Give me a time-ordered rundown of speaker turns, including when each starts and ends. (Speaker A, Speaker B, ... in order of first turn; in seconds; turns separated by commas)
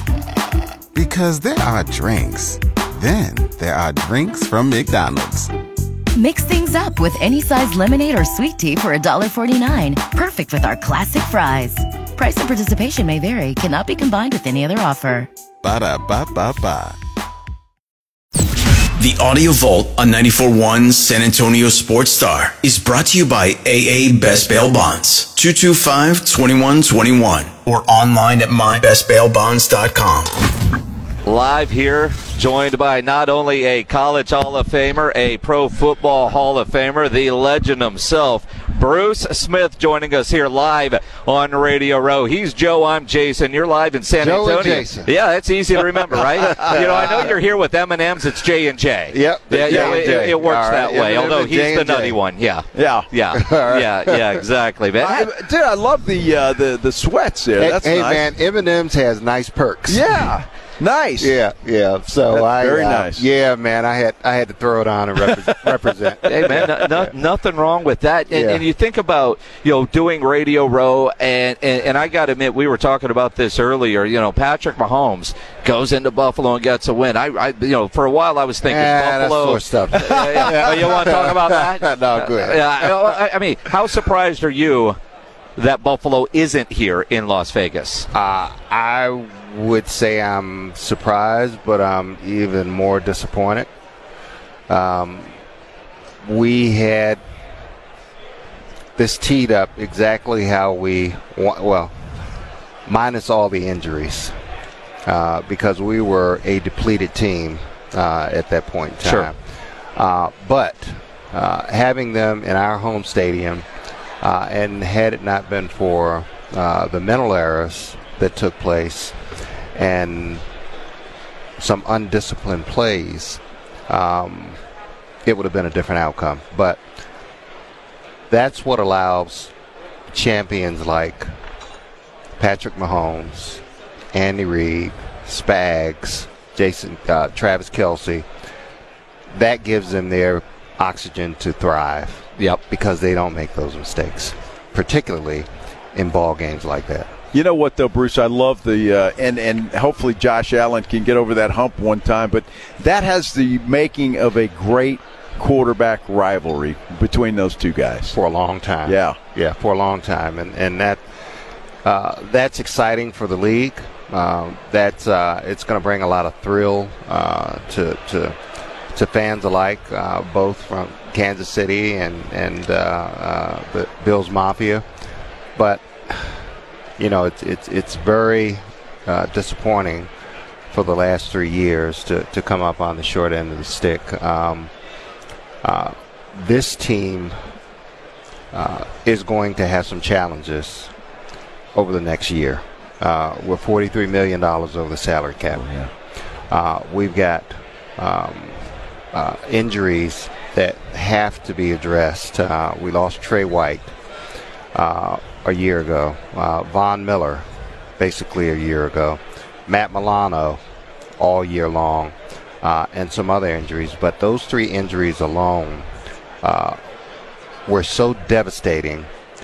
Speaker A: 0.9-5.5, Speaker B: 6.2-15.3, Speaker A: 15.6-17.0, Speaker C: 19.0-30.4, Speaker D: 31.2-55.2, Speaker E: 44.2-45.1, Speaker E: 46.4-47.3, Speaker E: 49.1-52.2, Speaker F: 49.6-50.2, Speaker F: 52.8-53.1, Speaker E: 53.3-54.4, Speaker F: 55.0-58.3, Speaker E: 57.6-60.4, Speaker F: 59.9-61.4, Speaker E: 61.2-67.1, Speaker F: 62.3-63.3, Speaker F: 65.3-65.8, Speaker D: 66.2-85.0, Speaker F: 66.4-66.7, Speaker E: 68.3-68.6, Speaker E: 78.6-83.1, Speaker D: 85.5-88.1, Speaker E: 88.1-93.7, Speaker E: 94.7-95.3, Speaker E: 96.2-97.2, Speaker E: 99.0-101.9, Speaker E: 102.9-104.3, Speaker E: 105.0-109.4, Speaker D: 109.0-109.3, Speaker E: 110.0-113.6, Speaker E: 114.2-119.2, Speaker E: 119.8-120.4, Speaker E: 121.6-124.6, Speaker E: 125.2-126.8, Speaker E: 128.3-129.5, Speaker E: 130.1-131.3, Speaker E: 132.4-138.2, Speaker E: 139.3-147.1, Speaker F: 147.3-158.2, Speaker E: 158.1-161.0, Speaker F: 158.8-159.2, Speaker E: 161.8-168.3, Speaker E: 168.9-174.8, Speaker E: 175.6-176.4, Speaker E: 177.0-180.1, Speaker E: 180.7-184.7, Speaker E: 185.6-187.4, Speaker E: 188.5-190.9, Speaker E: 191.8-195.7, Speaker F: 195.5-195.9, Speaker E: 196.5-203.9, Speaker E: 204.8-207.5, Speaker E: 208.0-210.6, Speaker E: 211.2-215.9, Speaker E: 216.4-216.8, Speaker E: 217.7-219.1